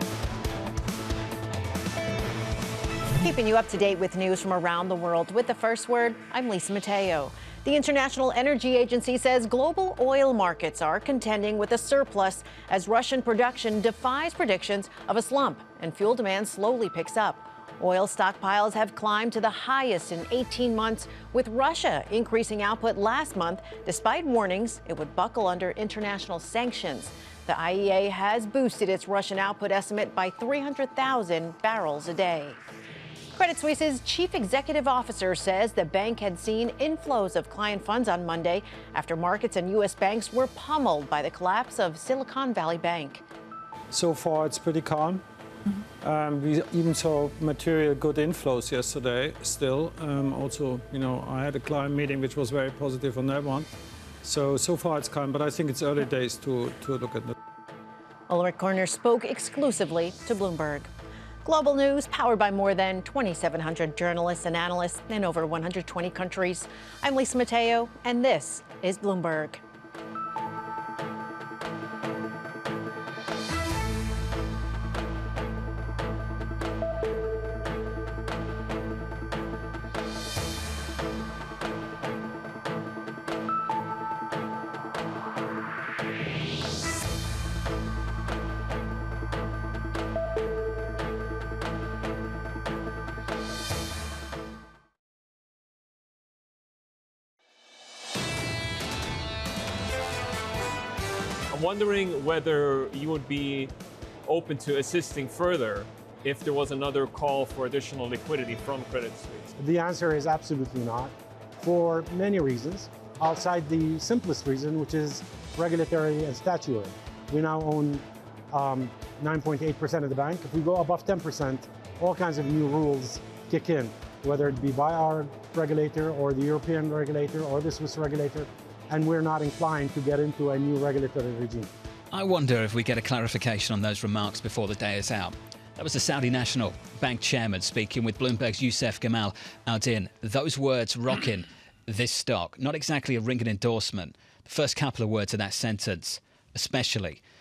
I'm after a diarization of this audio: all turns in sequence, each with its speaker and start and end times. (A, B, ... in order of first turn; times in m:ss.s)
0:03.2-0:32.6 A
0:33.4-0:43.2 A
0:43.9-0:45.2 B
0:46.0-0:53.7 B
0:54.2-0:57.3 B
0:58.3-1:00.9 A
1:01.4-1:09.6 A
1:41.5-1:43.7 C
1:44.3-1:49.5 C
1:49.6-2:11.7 D
2:12.1-2:27.2 E